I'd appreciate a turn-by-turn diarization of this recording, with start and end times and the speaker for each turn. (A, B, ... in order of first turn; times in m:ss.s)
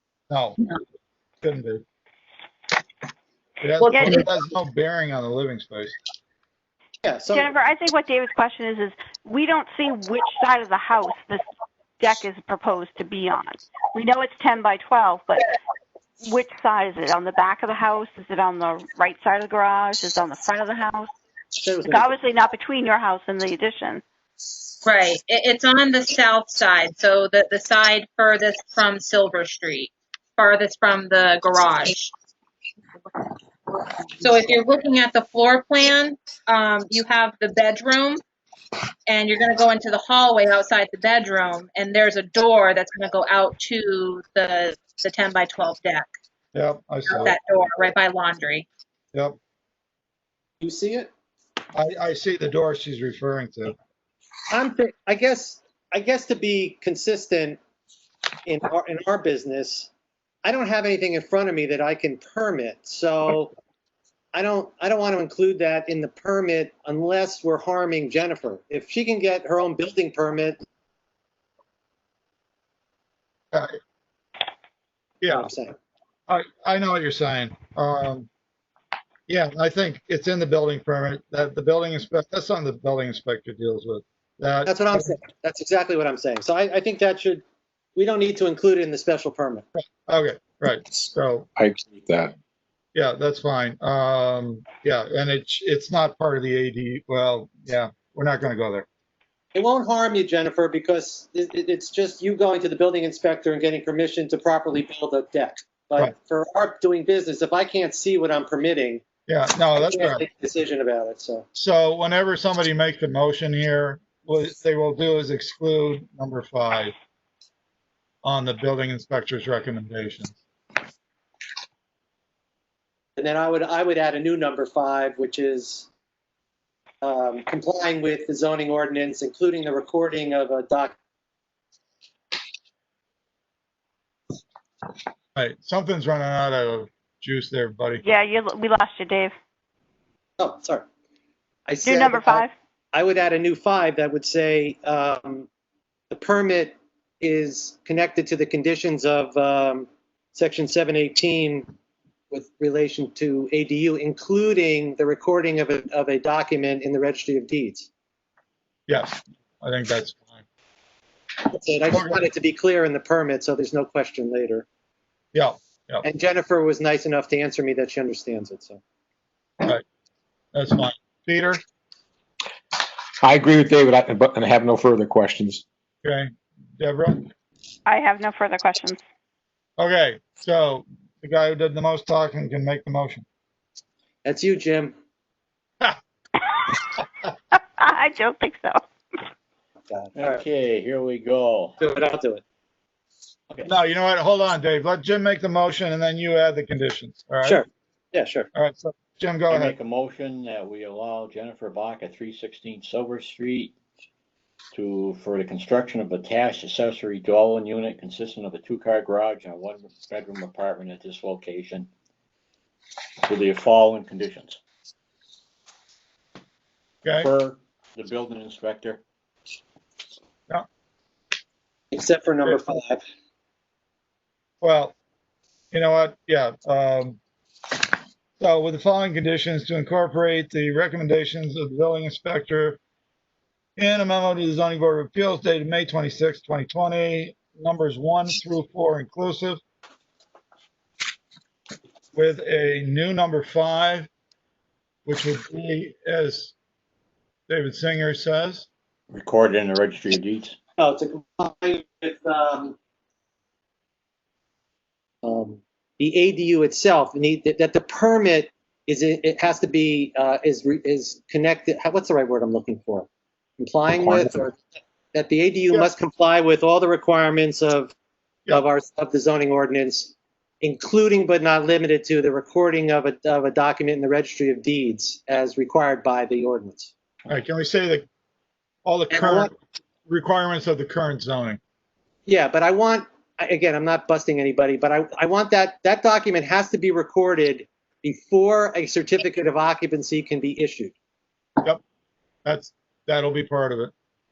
0:00.3-0:00.6 A
0:01.4-0:01.8 A
0:03.6-0:06.0 A
0:03.9-0:04.2 B
0:07.0-0:07.5 C
0:07.3-0:11.4 B
0:12.0-0:15.5 B
0:16.2-0:21.1 B
0:21.6-0:22.1 C
0:21.9-0:24.0 B
0:24.8-0:32.1 D
0:34.2-0:38.2 D
0:39.1-0:46.1 D
0:46.5-0:47.4 A
0:47.1-0:48.7 D
0:50.6-0:51.1 C
0:51.7-0:53.8 A
0:54.5-0:57.6 C
0:58.5-0:59.9 C
1:00.4-1:03.5 C
1:04.3-1:10.6 C
1:13.5-1:13.8 A
1:15.2-1:15.5 A
1:15.3-1:15.8 C
1:16.3-1:18.3 A
1:19.3-1:25.1 A
1:24.7-1:27.4 C
1:28.0-1:29.6 C
1:29.8-1:31.5 A
1:31.6-1:32.3 E
1:33.0-1:38.9 A
1:39.5-1:49.0 C
1:49.3-1:50.2 A
1:49.8-1:51.5 C
1:51.6-1:56.9 A
1:58.2-2:00.4 A
2:03.2-2:05.9 C
2:07.0-2:11.0 C
2:15.4-2:18.0 A
2:18.0-2:19.3 B
2:20.4-2:20.9 C
2:21.7-2:25.5 C
2:21.8-2:22.5 B
2:26.1-2:31.7 C
2:32.3-2:37.9 C
2:38.9-2:40.4 A
2:41.5-2:44.7 C
2:41.9-2:42.2 A
2:45.3-2:46.0 A
2:46.0-2:48.8 C
2:50.5-2:51.6 A
2:53.2-2:55.6 E
2:56.0-2:57.3 A
2:57.9-2:59.0 B
2:59.8-3:03.2 A
3:04.2-3:05.0 C
3:07.6-3:08.8 B
3:09.9-3:10.4 C
3:10.2-3:11.7 F
3:11.8-3:12.4 C
3:13.7-3:17.6 A
3:17.4-3:18.5 C
3:18.5-3:19.8 A
3:19.5-3:23.7 F
3:24.7-3:31.9 F
3:33.3-3:34.6 F
3:37.2-3:39.0 F
3:41.9-3:43.0 C
3:44.6-3:44.9 A
3:45.7-3:47.2 A
3:48.4-3:52.8 A
3:53.8-3:59.6 A
4:02.2-4:04.1 A
4:05.1-4:06.5 A
4:07.5-4:08.7 A
4:09.1-4:10.6 F
4:10.8-4:12.8 C
4:15.2-4:23.1 C
4:23.6-4:24.6 C
4:24.0-4:24.3 E
4:25.1-4:27.9 C
4:28.5-4:36.9 C
4:37.3-4:38.1 A
4:38.8-4:39.6 A
4:39.1-4:39.5 C
4:40.1-4:41.6 A
4:42.3-4:51.0 C
4:52.4-4:53.9 A